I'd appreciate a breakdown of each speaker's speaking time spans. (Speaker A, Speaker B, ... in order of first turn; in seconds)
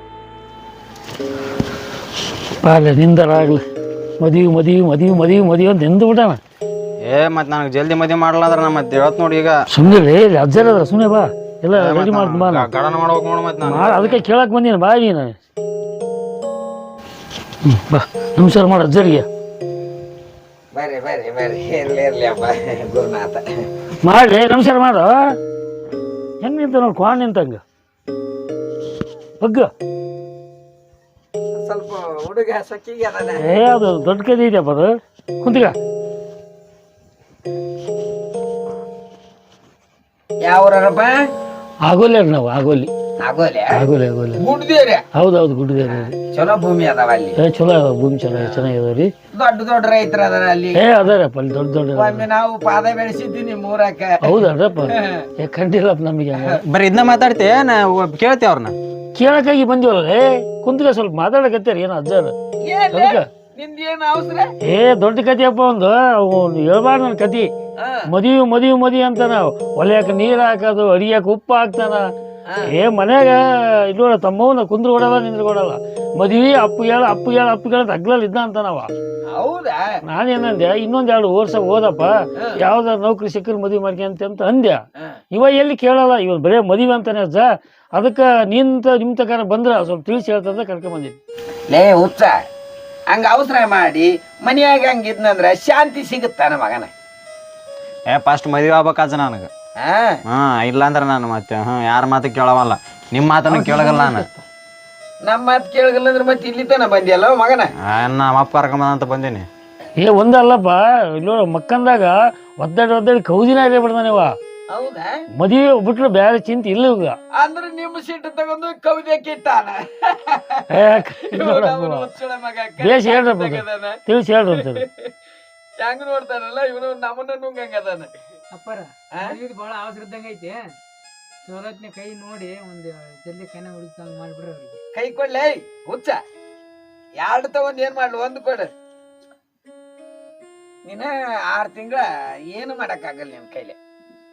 Speaker A: 2.6-3.6, 4.2-6.4, 9.7-12.7, 13.6-15.4, 17.6-19.3, 24.0-25.4, 26.4-27.6, 29.4-29.7, 33.4-35.8, 41.9-42.9, 43.8-44.4, 45.1-46.1, 47.4-49.1, 50.8-52.2, 54.2-56.6, 59.2-62.3, 62.9-63.2, 64.7-67.5, 68.1-72.1, 72.7-78.9, 80.1-91.2, 110.0-114.3, 115.4-117.2, 120.7-122.1, 122.8-124.8
Speaker B: 7.1-9.6, 11.7-14.2, 56.7-58.8, 98.1-99.5, 100.3-104.3, 107.8-109.5
Speaker C: 20.7-23.4, 31.6-33.4, 40.4-41.1, 43.2-43.8, 44.4-45.0, 45.8-47.4, 49.3-50.8, 52.0-55.3, 62.6-64.5, 67.8-68.1, 79.3-80.0, 82.4-82.6, 91.7-92.4, 93.1-96.9, 99.8-100.2, 105.2-107.7, 114.7-115.2, 117.4-125.1, 125.8-128.1, 134.9-136.2, 137.2-138.7, 140.8-143.8
Speaker D: 103.6-104.2, 128.5-130.6, 131.4-134.8